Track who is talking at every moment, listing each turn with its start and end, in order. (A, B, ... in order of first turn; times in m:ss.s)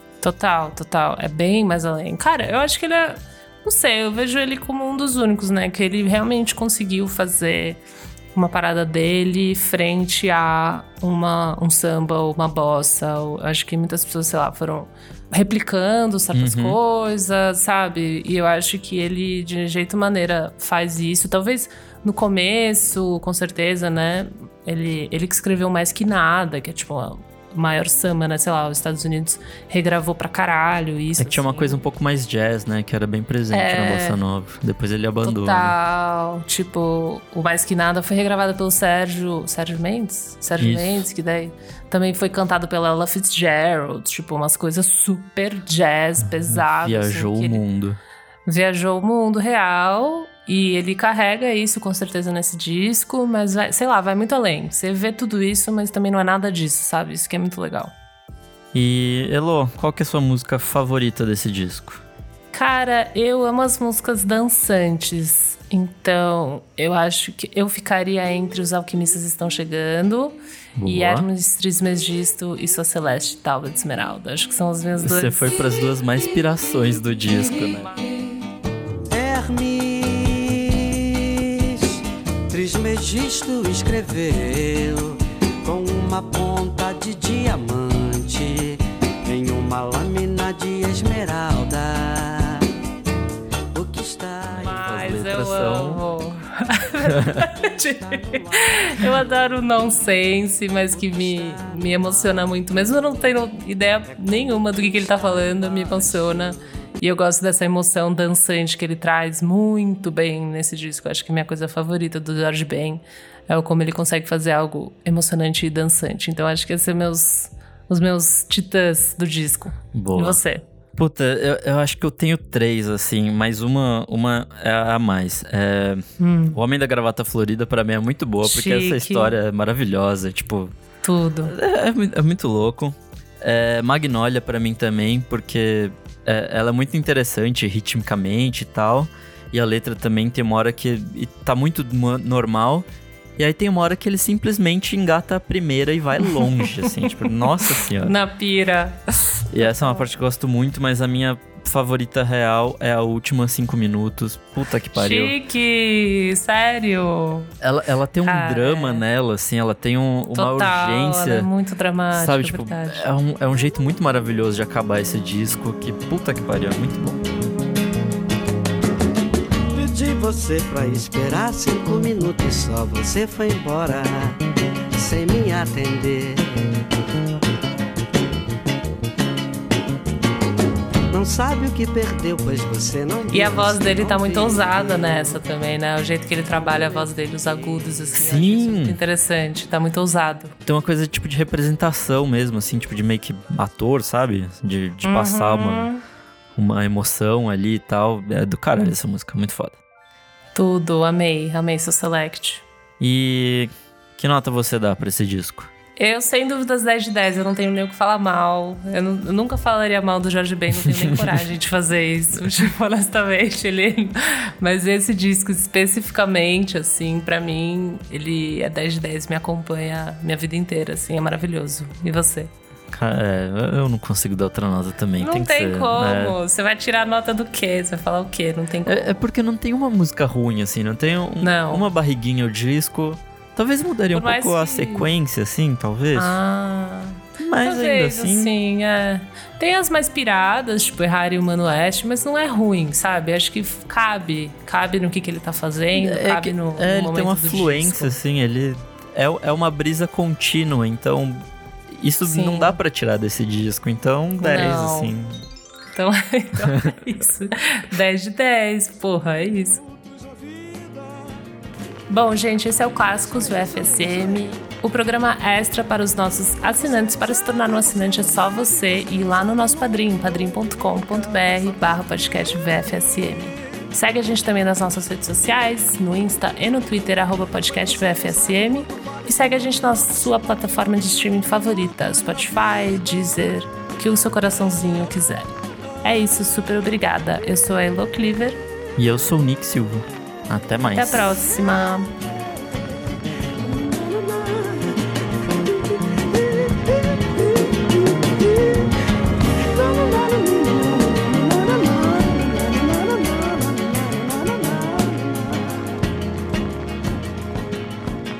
0:00.2-0:07.8 A
0:08.3-0:31.8 A
0:16.3-0:16.8 B
0:31.2-0:35.7 B
0:33.5-0:34.2 A
0:35.2-0:47.6 A
0:40.6-0:41.0 B
0:46.2-0:48.0 B
0:48.5-0:57.9 A
0:58.7-1:02.0 B
1:02.5-1:15.5 A
1:10.8-1:11.3 B
1:15.0-1:17.9 B
1:19.1-1:32.7 C
1:33.7-1:35.2 C
1:34.6-1:36.0 B
1:34.6-2:00.6 A
1:37.2-1:37.4 B
1:37.4-1:39.5 C
1:40.9-1:43.2 C
1:44.1-1:46.7 C
1:59.9-2:00.4 B
2:01.0-2:06.0 B
2:06.2-2:06.6 A
2:06.5-2:10.7 B
2:08.4-2:09.4 A
2:11.0-2:11.5 A
2:11.4-2:28.1 B
2:26.3-2:27.1 A
2:27.8-2:30.0 A
2:29.5-2:35.3 B
2:34.9-2:37.5 A
2:37.6-2:41.5 B
2:38.2-2:39.0 A
2:40.3-2:43.0 A
2:42.1-2:47.2 B
2:49.7-2:54.4 C
2:54.9-2:56.8 C
3:01.1-3:05.4 C
3:03.3-3:10.5 A
3:08.2-3:09.0 B
3:10.6-3:15.9 B
3:15.0-3:16.0 A
3:16.5-3:19.8 B
3:20.5-3:22.6 A
3:23.0-3:25.7 B
3:26.0-3:42.5 A
3:30.8-3:31.2 B
3:42.9-3:46.4 B
3:45.2-3:49.2 A
3:48.8-3:56.4 B
3:51.4-3:51.9 A
3:54.1-3:55.1 A
3:56.1-4:08.2 A
3:57.4-3:58.5 B
4:05.9-4:15.4 B
4:12.2-4:12.8 A
4:14.4-4:15.1 A
4:15.9-4:19.8 A
4:22.1-4:45.5 A
4:46.0-4:48.6 A
4:49.0-4:51.4 B
4:50.9-4:52.1 A
4:53.6-4:54.8 C
4:56.0-4:58.7 C
4:59.7-5:05.7 C